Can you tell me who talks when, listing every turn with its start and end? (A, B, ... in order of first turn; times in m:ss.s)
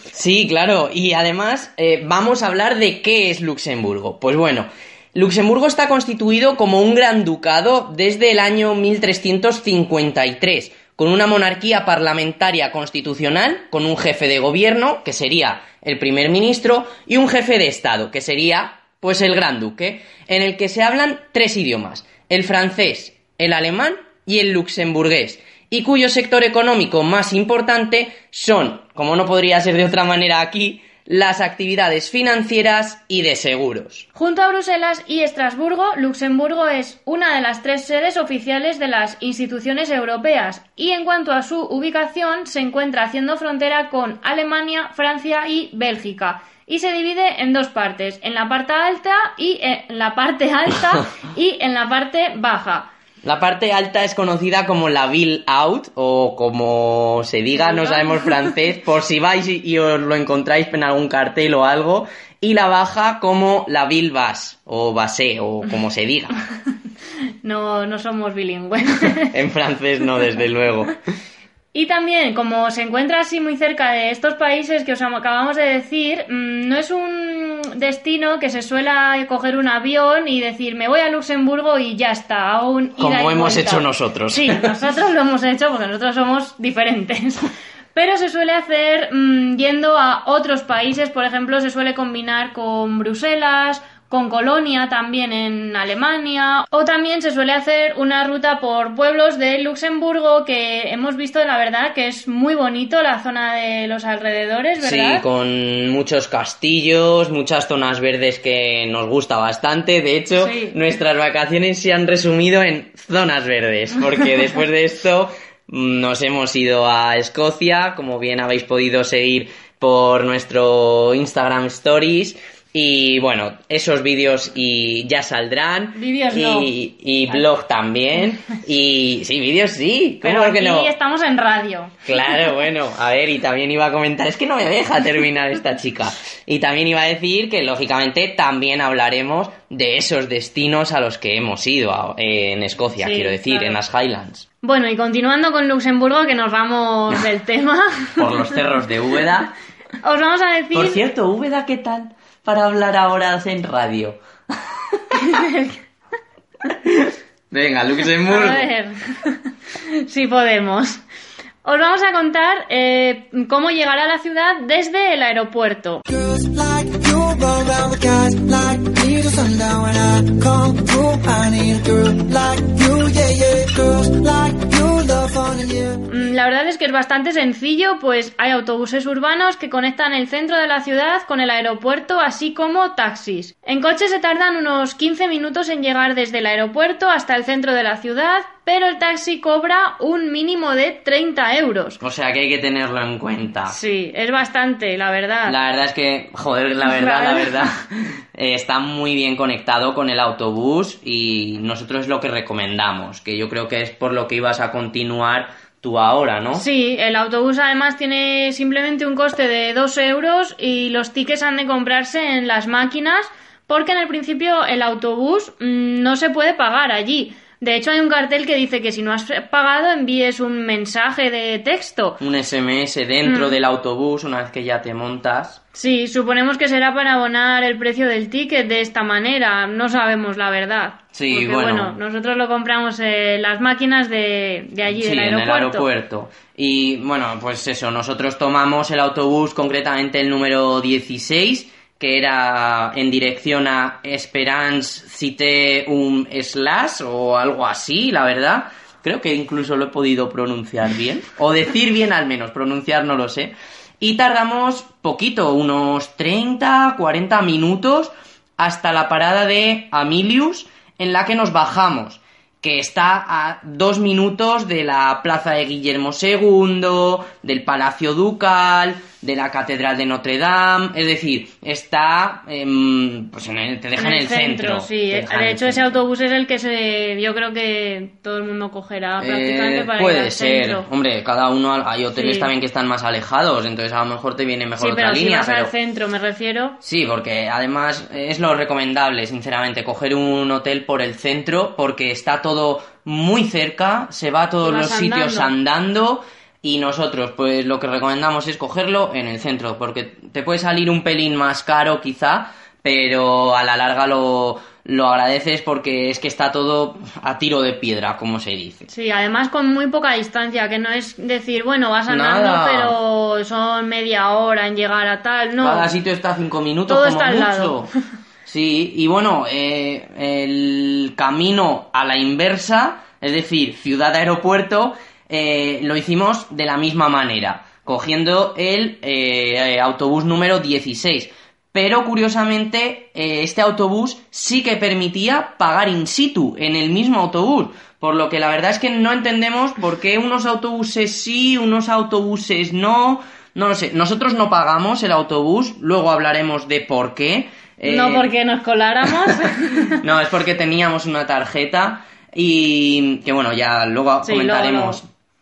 0:00.1-0:34.1 A
0:34.2-0:52.9 B
0:53.2-1:06.4 A
0:57.6-0:58.1 B
1:07.4-1:09.3 B
1:09.3-1:11.0 A
1:11.7-1:45.2 B
1:23.0-1:24.7 A
1:44.8-2:10.9 A
1:50.4-1:50.8 B
2:06.0-2:06.7 B
2:10.2-2:12.0 B
2:12.1-2:24.4 A
2:23.0-2:23.8 B
2:24.6-2:28.2 B
2:28.2-2:29.5 A
2:30.0-2:31.0 B
2:30.7-2:34.2 A
2:35.2-2:35.8 B
2:36.9-2:38.7 A
2:38.3-2:41.0 B
2:41.6-2:46.0 B
2:46.1-2:56.0 C
2:56.1-3:12.0 B
3:12.0-3:13.8 A
3:13.7-3:15.6 B
3:15.5-3:26.6 A
3:16.9-3:17.6 B
3:26.5-3:42.2 B
3:42.2-3:45.6 A
3:43.2-3:43.6 B
3:45.8-3:55.9 B
3:51.1-3:52.0 A
3:54.9-4:36.0 A
4:34.0-4:40.9 B
4:39.2-4:45.7 A
4:42.2-4:42.5 B
4:44.8-4:46.8 B
4:46.8-5:08.9 A
4:54.6-4:55.5 B
5:08.9-5:15.9 B
5:12.1-5:13.0 A
5:15.6-5:17.9 A
5:16.9-5:17.7 B
5:18.5-5:48.3 A
5:47.9-5:50.0 B
5:50.0-5:55.1 A
5:54.2-5:55.0 B